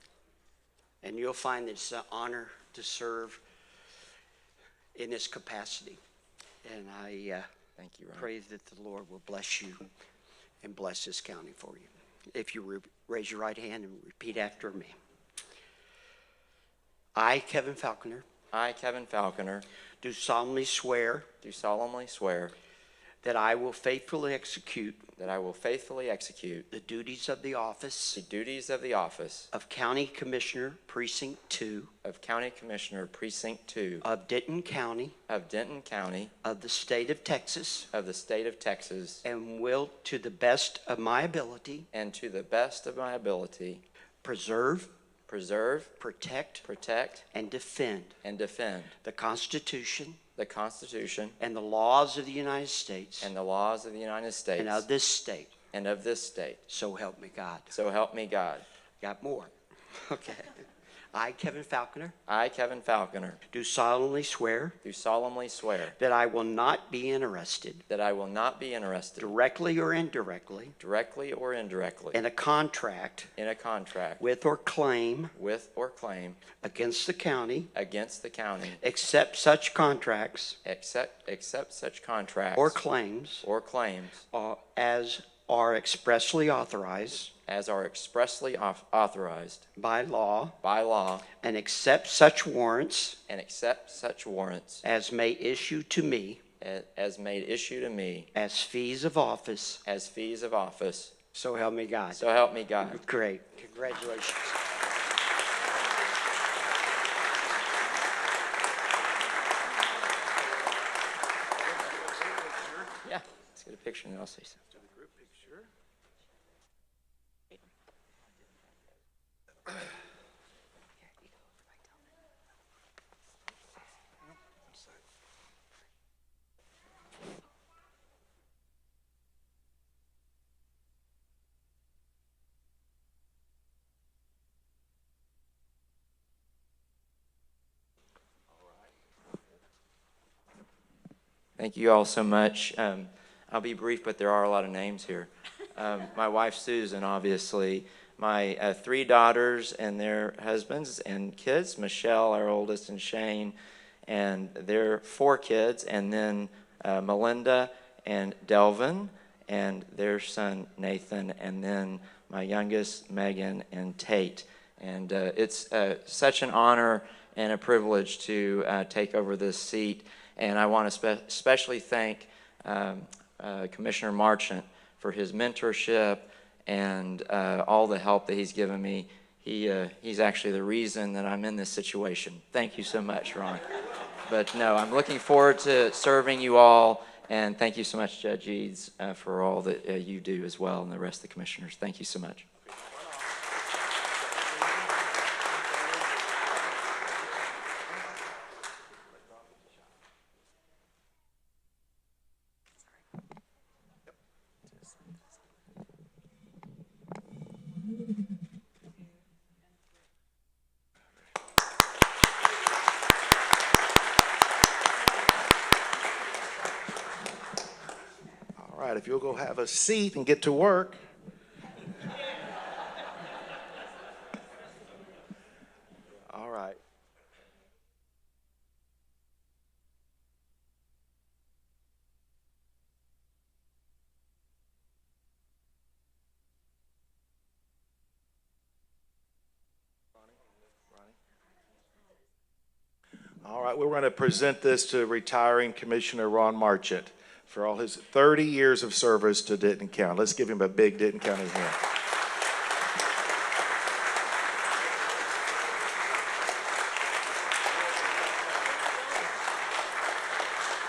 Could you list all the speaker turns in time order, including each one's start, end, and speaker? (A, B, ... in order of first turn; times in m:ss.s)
0:01.0-0:03.4 A
0:05.0-0:06.0 A
0:06.6-0:07.5 A
0:07.8-0:08.3 B
0:08.2-0:09.9 A
0:10.6-0:15.0 A
0:17.2-0:18.3 A
0:18.5-0:19.7 B
0:20.0-0:21.3 A
0:21.4-0:22.6 B
0:23.2-0:25.1 A
0:25.2-0:26.7 B
0:26.7-0:28.2 A
0:28.1-0:29.5 B
0:29.5-0:31.9 A
0:32.0-0:34.0 B
0:34.0-0:35.2 A
0:35.3-0:36.3 B
0:36.4-0:37.9 A
0:37.9-0:39.2 B
0:39.2-0:41.9 A
0:41.9-0:43.8 B
0:44.2-0:44.9 A
0:45.3-0:45.9 B
0:46.0-0:46.6 A
0:46.6-0:47.3 B
0:47.3-0:48.2 A
0:48.2-0:48.9 B
0:49.0-0:50.2 A
0:50.4-0:51.4 B
0:51.4-0:53.3 A
0:53.2-0:54.9 B
0:54.6-0:55.6 A
0:55.7-0:56.6 B
0:56.7-0:57.7 A
0:57.7-0:58.6 B
0:59.0-1:02.2 A
1:02.3-1:03.4 B
1:03.5-1:04.8 A
1:04.8-1:06.0 B
1:06.0-1:07.8 A
1:07.9-1:09.3 B
1:09.2-1:10.8 A
1:10.8-1:12.2 B
1:12.1-1:13.3 A
1:13.4-1:14.2 B
1:14.2-1:15.3 A
1:15.3-1:16.4 B
1:16.6-1:17.7 A
1:17.7-1:18.8 B
1:18.8-1:20.6 A
1:20.6-1:22.8 B
1:22.6-1:23.4 A
1:23.4-1:24.3 B
1:24.3-1:27.3 A
1:27.5-1:29.7 B
1:29.8-1:30.6 A
1:30.6-1:31.3 B
1:31.4-1:33.2 A
1:33.3-1:34.8 B
1:34.8-1:36.4 A
1:36.6-1:38.3 B
1:38.3-1:39.8 A
1:39.8-1:41.1 B
1:41.3-1:42.2 A
1:42.1-1:43.0 B
1:42.8-1:44.6 A
1:51.8-1:52.9 C
1:53.0-1:54.6 B
1:54.8-1:55.6 C
2:21.6-2:33.6 B
2:34.1-3:03.6 B
3:04.3-3:12.5 B
3:38.6-3:41.0 C
3:46.3-3:46.8 C
4:03.4-4:11.8 C